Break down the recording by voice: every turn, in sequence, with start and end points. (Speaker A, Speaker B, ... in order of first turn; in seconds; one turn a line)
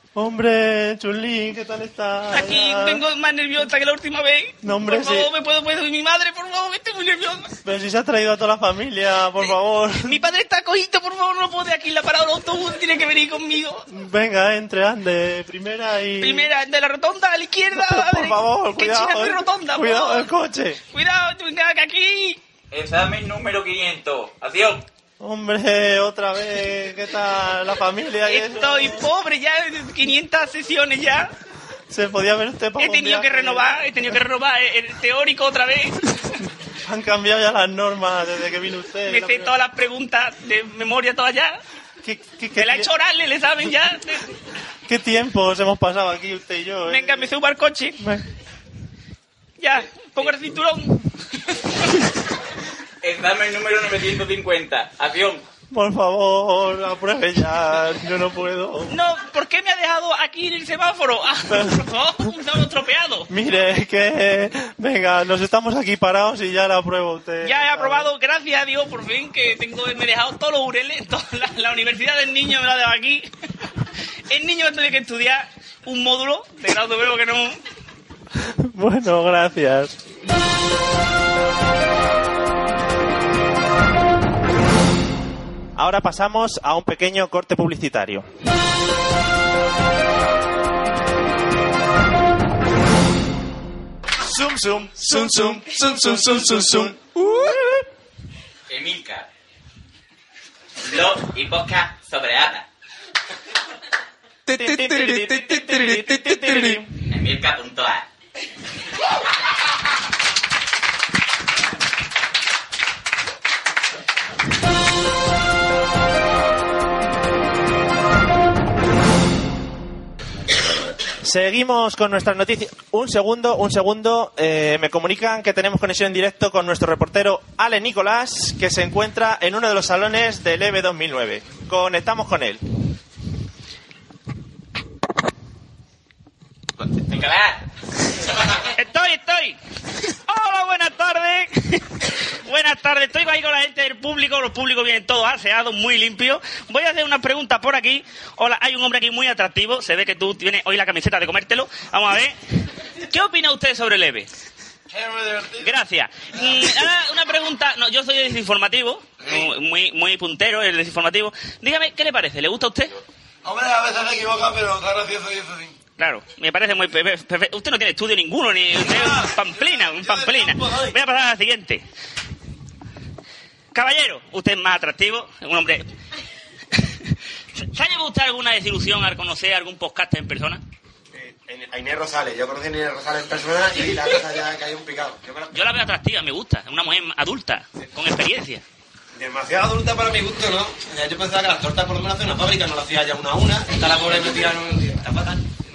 Speaker A: 0.2-3.0
Speaker B: 2.3-7.5
Speaker A: 4.6-5.3
Speaker A: 7.6-10.3
Speaker B: 10.0-13.9
Speaker A: 13.9-16.5
Speaker B: 16.2-20.3
Speaker A: 17.7-20.8
Speaker B: 20.9-22.4
Speaker C: 22.7-24.9
Speaker A: 25.2-29.1
Speaker B: 28.3-31.3
Speaker A: 31.9-33.8
Speaker B: 32.8-36.1
Speaker A: 36.8-39.5
Speaker B: 39.1-41.6
Speaker A: 42.0-42.9
Speaker B: 42.6-44.3
Speaker A: 44.9-47.4
Speaker B: 46.9-48.0
Speaker A: 48.0-48.2
Speaker B: 49.6-51.0
Speaker C: 53.0-55.4
Speaker A: 55.7-58.9
Speaker B: 58.9-63.3
Speaker A: 61.5-61.8
Speaker A: 63.3-68.1
Speaker B: 67.4-73.3
Speaker B: 74.3-77.6
Speaker A: 78.5-80.0
Speaker A: 85.8-88.3
Speaker D: 94.4-97.8
Speaker C: 98.7-99.3
Speaker C: 100.8-102.7
Speaker D: 104.5-106.8
Speaker A: 104.5-106.9
Speaker C: 107.1-108.1
Speaker A: 121.2-132.6
Speaker C: 137.0-137.6
Speaker B: 138.8-139.6
Speaker B: 140.3-152.4
Speaker B: 153.1-154.3
Speaker E: 155.0-155.6
Speaker B: 155.6-163.0
Speaker E: 163.5-165.7
Speaker B: 166.0-171.8
Speaker B: 173.7-175.8
Speaker B: 176.7-180.6
Speaker E: 181.1-185.6
Speaker B: 185.5-188.6
Speaker E: 189.2-195.4